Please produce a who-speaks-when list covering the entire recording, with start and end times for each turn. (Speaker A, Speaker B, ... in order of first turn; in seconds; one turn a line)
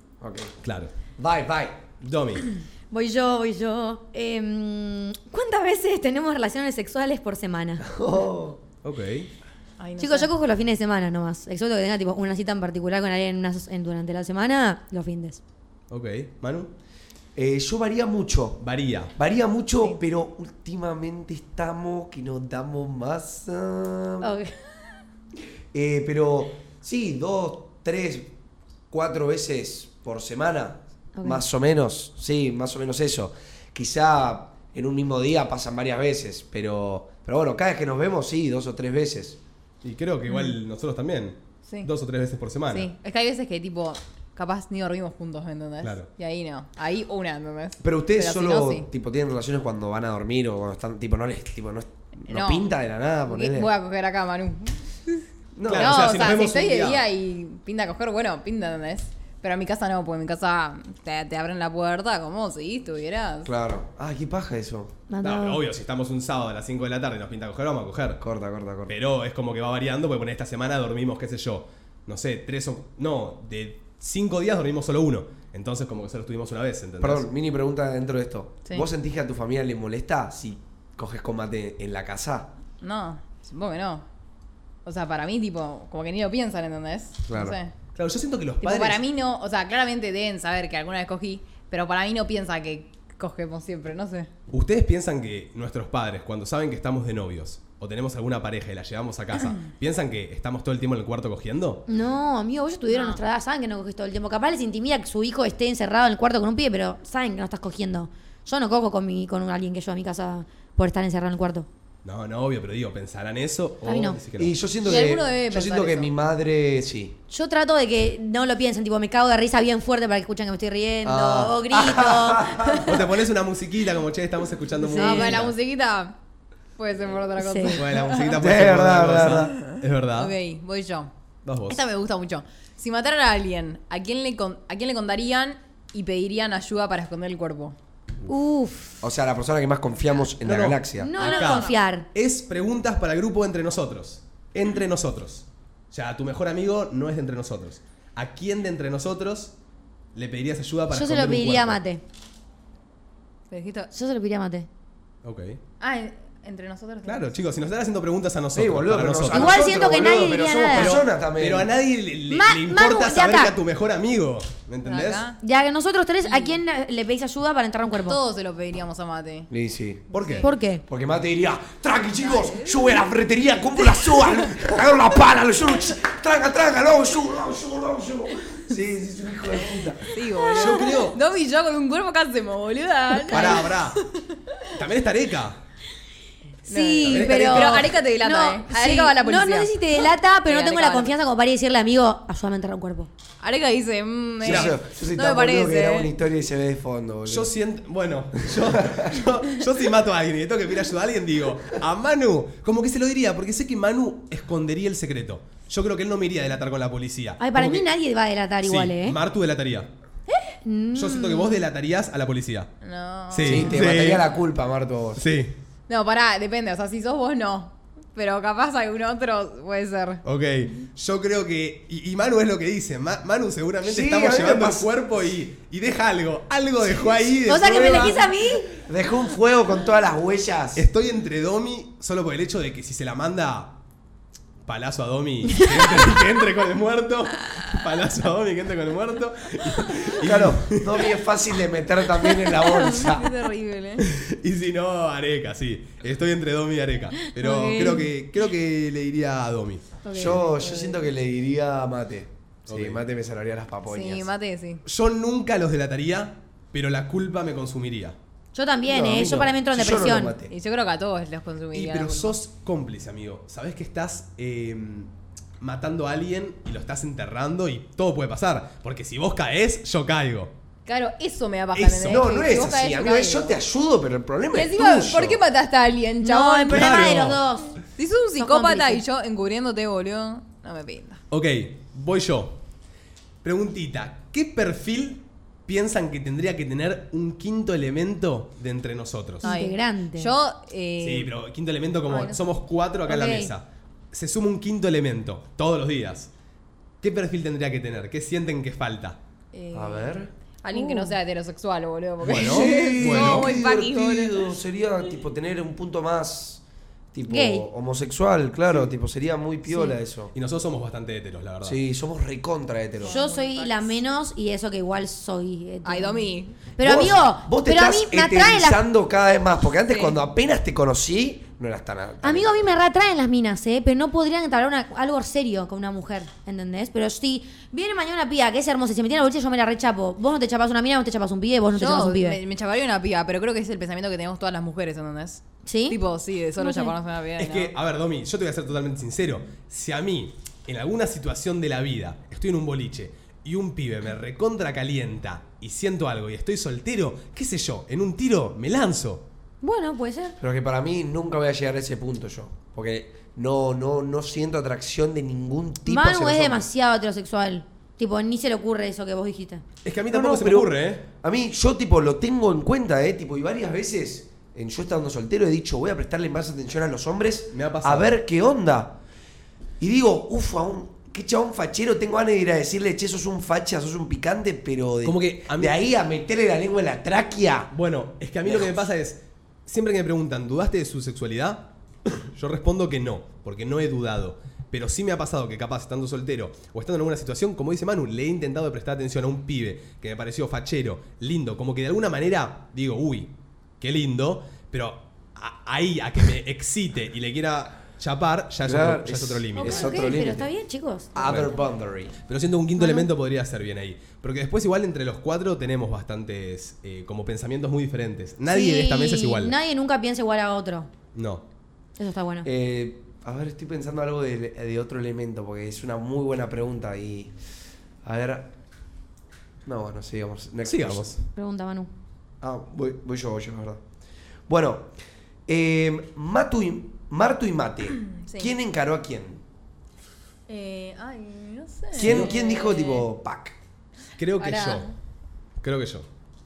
Speaker A: 0.2-0.5
Speaker B: 0.6-0.9
Speaker A: 1.2-1.8
Speaker B: 2.0-2.5
Speaker C: 2.9-7.9
Speaker A: 7.8-8.6
Speaker B: 8.8-9.3
Speaker D: 9.8-10.3
Speaker C: 10.0-15.4
Speaker B: 15.9-16.7
Speaker A: 17.4-18.6
Speaker B: 18.6-19.1
Speaker A: 19.1-24.3
Speaker C: 24.2-24.5
Speaker A: 25.7-28.3
Speaker A: 28.9-39.4
Speaker C: 31.2-31.4
Speaker B: 39.8-42.9
Speaker D: 42.7-48.9
Speaker B: 45.8-46.1
Speaker A: 47.8-53.7
Speaker D: 52.3-52.6
Speaker D: 53.3-55.2
Speaker A: 55.5-56.1
Speaker B: 55.7-57.0
Speaker D: 55.8-63.5
Speaker A: 63.5-64.9
Speaker C: 65.1-65.6
Speaker B: 65.2-68.2
Speaker A: 68.2-68.9
Speaker B: 68.9-77.3
Speaker A: 77.0-82.5
Speaker D: 82.8-84.0
Speaker D: 84.8-87.7
Speaker A: 87.3-87.6
Speaker B: 88.0-89.0
Speaker D: 88.6-94.3
Speaker B: 94.5-101.8
Speaker C: 101.9-111.7
Speaker D: 102.9-103.2
Speaker B: 112.0-114.5
Speaker C: 113.8-114.2
Speaker A: 114.4-117.2
Speaker D: 114.8-116.1
Speaker C: 117.3-123.0
Speaker B: 121.0-121.6
Speaker A: 121.7-122.9
Speaker B: 122.8-125.5
Speaker C: 124.8-125.4
Speaker D: 125.0-126.2
Speaker D: 126.8-128.4
Speaker C: 127.4-127.8
Speaker B: 127.8-130.3
Speaker A: 128.4-129.5
Speaker D: 129.2-131.1
Speaker B: 131.4-131.8
Speaker D: 131.7-137.8
Speaker C: 138.3-139.0
Speaker A: 139.0-141.1
Speaker B: 140.4-149.5
Speaker C: 141.0-142.1
Speaker D: 141.2-141.8
Speaker B: 150.2-151.8
Speaker C: 150.9-152.0
Speaker D: 153.5-153.9
Speaker C: 153.9-154.7
Speaker B: 155.2-155.6
Speaker D: 155.8-157.4
Speaker B: 157.0-159.6
Speaker A: 158.5-161.7
Speaker C: 159.3-161.0
Speaker B: 160.7-165.3
Speaker C: 162.3-163.6
Speaker D: 164.8-165.4
Speaker C: 165.4-168.2
Speaker D: 166.2-166.6
Speaker D: 167.9-169.5
Speaker A: 169.5-180.1
Speaker D: 170.1-170.5
Speaker B: 170.1-170.4
Speaker C: 170.4-170.8
Speaker D: 172.2-173.0
Speaker D: 180.1-184.3
Speaker C: 180.5-180.9
Speaker B: 180.5-181.2
Speaker C: 183.3-183.6
Speaker B: 183.3-184.0
Speaker B: 184.7-185.6
Speaker C: 186.7-193.1
Speaker D: 186.7-191.1
Speaker B: 187.0-187.9
Speaker D: 193.4-196.1
Speaker A: 194.4-197.5
Speaker B: 194.4-194.7
Speaker B: 197.3-207.9
Speaker A: 198.5-199.2
Speaker C: 207.4-209.2
Speaker B: 208.6-209.9
Speaker D: 210.3-210.6
Speaker C: 210.6-211.6
Speaker B: 210.9-212.7
Speaker D: 212.8-213.8
Speaker B: 213.3-214.3
Speaker A: 213.4-215.2
Speaker B: 215.2-215.6
Speaker D: 215.9-220.2
Speaker B: 220.2-228.3
Speaker A: 223.8-224.9
Speaker A: 226.9-228.1
Speaker C: 227.5-228.8
Speaker A: 228.8-230.9
Speaker B: 230.8-233.8
Speaker B: 234.7-241.2
Speaker C: 235.6-236.0
Speaker A: 240.1-243.3
Speaker D: 242.5-244.1
Speaker B: 244.0-249.8
Speaker C: 247.3-248.1
Speaker D: 250.0-251.0
Speaker A: 250.1-254.3
Speaker B: 252.7-253.0
Speaker D: 253.9-254.8
Speaker B: 254.8-258.2
Speaker C: 258.5-260.4
Speaker A: 258.9-260.5
Speaker D: 259.9-262.4
Speaker B: 261.7-270.5
Speaker D: 270.9-273.6
Speaker B: 271.8-272.3
Speaker A: 272.1-275.4
Speaker D: 274.5-281.2
Speaker C: 276.2-277.8
Speaker B: 276.7-277.4
Speaker C: 278.4-279.0
Speaker B: 281.3-282.6
Speaker B: 283.4-289.5
Speaker C: 289.4-290.4
Speaker D: 289.4-291.3
Speaker B: 291.0-296.3
Speaker D: 292.1-292.5
Speaker C: 293.1-293.5
Speaker B: 297.0-299.2
Speaker D: 299.5-304.6
Speaker A: 299.7-300.3
Speaker C: 300.7-301.2
Speaker B: 302.2-303.6
Speaker A: 302.3-306.6
Speaker A: 307.1-310.3
Speaker C: 307.3-307.7
Speaker C: 309.7-310.0
Speaker B: 310.3-311.8
Speaker A: 311.6-313.2
Speaker D: 313.0-314.0
Speaker C: 313.0-318.8
Speaker D: 315.8-316.6
Speaker A: 316.8-322.7
Speaker D: 319.9-320.2
Speaker C: 322.2-332.4
Speaker D: 331.7-337.7
Speaker C: 335.7-336.0
Speaker C: 336.6-336.9
Speaker B: 337.4-349.3
Speaker C: 349.6-350.4
Speaker A: 350.4-356.7
Speaker C: 355.9-359.6
Speaker B: 359.8-361.1
Speaker A: 360.1-369.0
Speaker B: 367.5-368.2
Speaker A: 369.8-377.7
Speaker B: 375.0-375.8
Speaker B: 377.7-399.9
Speaker A: 378.4-378.8
Speaker A: 398.7-400.5
Speaker C: 399.6-401.4
Speaker A: 401.1-402.2
Speaker B: 401.2-401.5
Speaker B: 402.3-409.6
Speaker C: 402.8-403.1
Speaker C: 408.5-410.9
Speaker B: 411.1-411.4
Speaker C: 412.0-412.5
Speaker A: 412.4-417.3
Speaker A: 418.0-418.5
Speaker A: 419.6-421.2
Speaker B: 420.7-421.2
Speaker C: 421.4-421.9
Speaker A: 422.4-423.8
Speaker A: 424.5-424.9
Speaker A: 425.5-429.4
Speaker D: 428.0-428.5
Speaker D: 430.5-433.1
Speaker A: 431.9-433.6
Speaker B: 432.0-432.3
Speaker B: 434.2-434.9
Speaker D: 434.4-434.9
Speaker B: 435.6-436.1